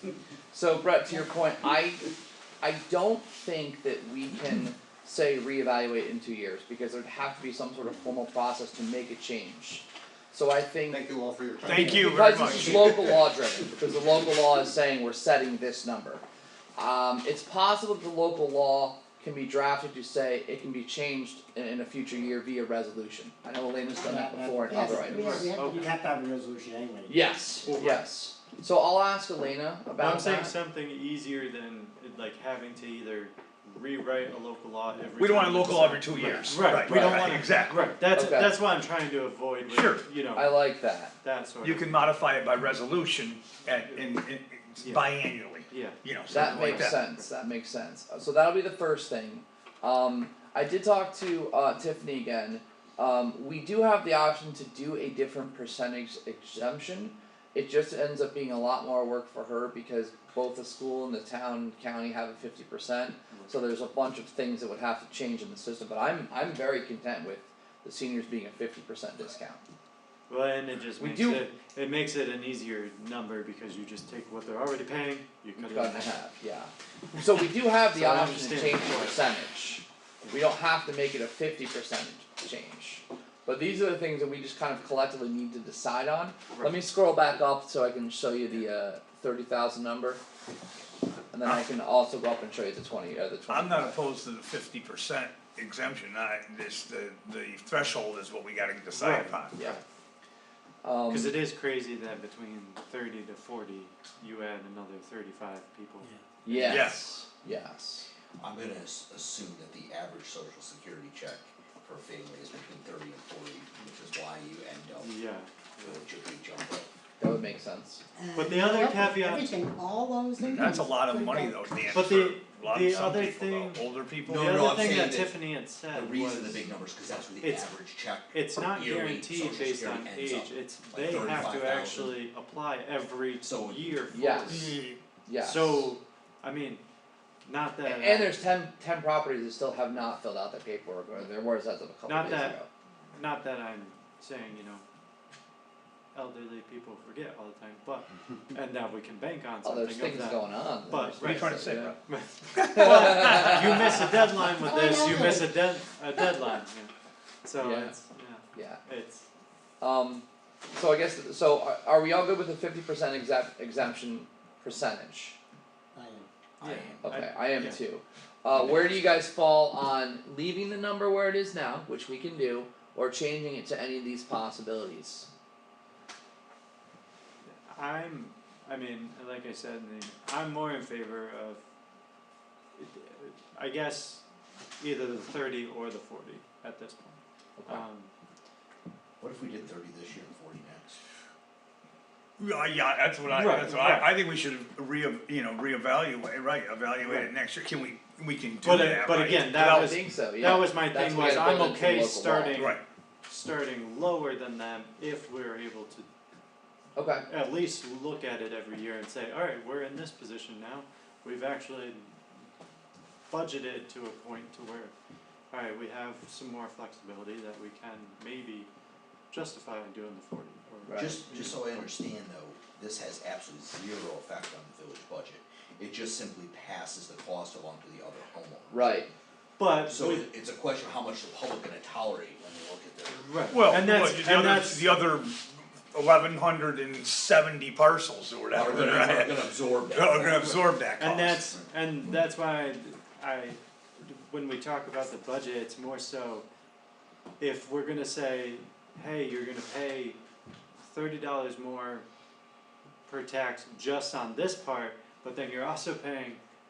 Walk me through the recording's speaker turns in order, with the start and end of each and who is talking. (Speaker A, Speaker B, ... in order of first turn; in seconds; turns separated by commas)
Speaker A: 0.5-2.1, Speaker A: 2.6-11.1, Speaker B: 10.9-12.9, Speaker C: 11.6-12.9, Speaker A: 11.7-16.2, Speaker A: 16.8-25.5, Speaker D: 24.0-27.2, Speaker E: 25.1-25.9, Speaker A: 27.1-30.6, Speaker E: 27.6-28.1, Speaker E: 30.0-40.7, Speaker C: 35.2-37.9, Speaker A: 38.1-38.6, Speaker C: 39.7-40.1, Speaker A: 40.3-41.1, Speaker E: 41.2-42.1, Speaker C: 41.6-47.0, Speaker E: 43.9-44.2, Speaker E: 44.8-45.1, Speaker E: 45.7-47.3, Speaker A: 46.3-69.6, Speaker E: 70.3-76.2, Speaker A: 71.0-71.5, Speaker A: 75.6-90.2, Speaker E: 77.9-79.2, Speaker E: 86.5-86.8, Speaker A: 91.3-94.0, Speaker C: 91.4-91.7, Speaker C: 93.5-99.6, Speaker E: 98.9-99.8, Speaker A: 100.8-101.4, Speaker E: 101.1-106.9, Speaker A: 106.5-108.1, Speaker C: 106.7-107.0, Speaker F: 108.4-115.2, Speaker E: 115.0-116.0, Speaker F: 115.8-116.9, Speaker A: 117.2-118.0, Speaker D: 118.2-121.7, Speaker E: 118.4-119.6, Speaker C: 120.4-124.5, Speaker E: 121.9-126.6, Speaker F: 124.3-125.4, Speaker F: 125.9-132.2, Speaker E: 127.4-134.8, Speaker F: 133.4-134.1, Speaker A: 134.1-134.7, Speaker C: 134.5-135.0, Speaker A: 135.2-135.9, Speaker E: 135.4-136.8, Speaker E: 137.4-138.4, Speaker A: 137.8-142.7, Speaker E: 142.1-142.6, Speaker E: 143.1-144.8, Speaker E: 146.1-156.9, Speaker A: 149.6-152.0, Speaker C: 151.2-152.0, Speaker C: 152.6-153.3, Speaker A: 152.7-153.8, Speaker D: 154.6-155.5, Speaker E: 157.4-159.2, Speaker A: 157.6-157.9, Speaker A: 158.5-158.8, Speaker A: 159.8-165.4, Speaker D: 165.9-166.3, Speaker F: 166.6-167.1, Speaker E: 166.6-167.8, Speaker A: 167.0-175.3, Speaker E: 177.5-181.6, Speaker E: 182.8-184.2, Speaker E: 184.8-188.1, Speaker A: 187.6-187.8, Speaker F: 189.2-191.0, Speaker C: 192.4-200.0, Speaker E: 193.3-194.1, Speaker E: 197.0-197.3, Speaker E: 198.6-206.1, Speaker A: 199.6-202.6, Speaker C: 202.6-202.8, Speaker A: 206.9-207.3, Speaker E: 207.3-212.2, Speaker E: 213.3-214.9, Speaker E: 215.5-218.7, Speaker E: 219.3-221.5, Speaker A: 220.8-221.2, Speaker F: 221.0-229.0, Speaker A: 228.7-229.1, Speaker E: 229.6-230.2, Speaker F: 229.8-233.3, Speaker E: 233.1-235.0, Speaker C: 233.5-241.4, Speaker F: 238.6-240.6, Speaker E: 240.4-246.4, Speaker F: 241.5-242.3, Speaker E: 247.4-250.2, Speaker E: 250.8-252.1, Speaker E: 253.1-256.4